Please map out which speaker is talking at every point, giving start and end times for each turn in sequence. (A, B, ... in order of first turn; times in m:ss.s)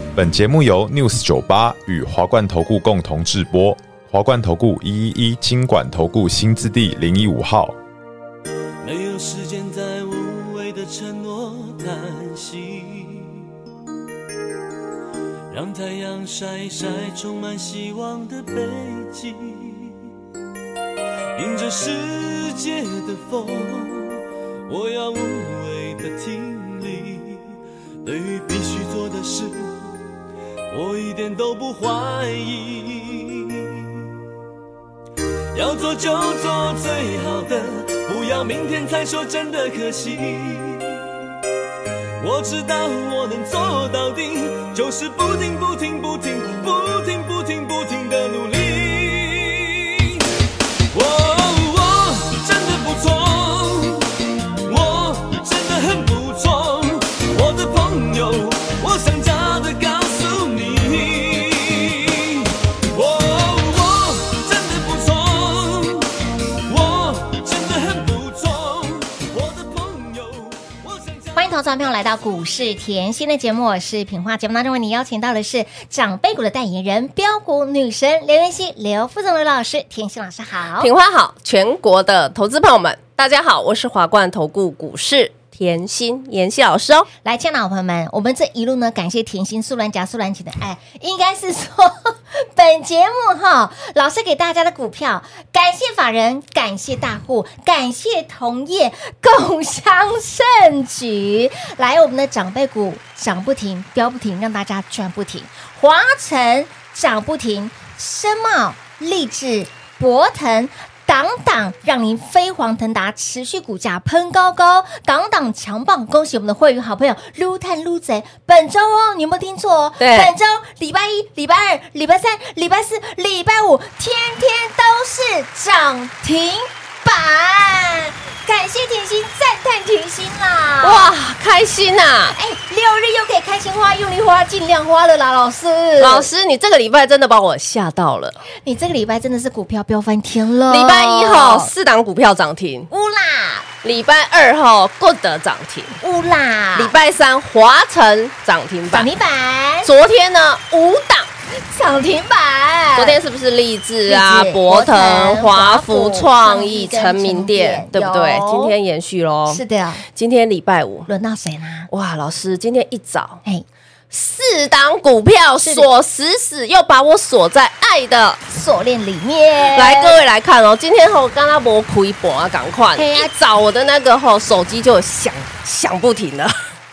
0:00.2-0:07.8 A
0:08.8-0:13.4 B
0:15.5-0:19.9 B
0:21.4-0:27.4 B
0:28.0-0:29.9 B
0:30.7-0:34.0 B
0:35.5-0:41.1 B
0:42.2-0:50.2 B
0:50.9-0:54.1 B
0:54.6-1:06.1 B
1:06.7-1:11.4 B
1:11.3-1:20.9 C
1:20.8-1:27.1 D
1:27.2-2:11.1 C
2:00.0-2:00.3 D
2:10.8-2:12.3 D
2:12.3-2:16.3 C
2:16.0-2:18.4 D
2:18.6-2:21.7 C
2:20.7-2:22.9 D
2:22.9-2:23.6 C
2:23.8-2:26.0 D
2:26.0-2:26.9 C
2:26.8-2:29.1 D
2:28.9-2:29.9 C
2:29.8-2:31.3 D
2:31.7-2:33.2 C
2:33.0-2:39.6 D
2:34.1-2:38.7 C
2:39.5-2:40.0 C
2:40.2-2:41.1 D
2:41.1-2:41.9 C
2:41.9-2:43.4 D
2:44.1-2:48.4 D
2:45.6-2:45.9 C
2:48.5-2:50.2 C
2:49.7-2:56.5 D
2:53.0-2:53.3 C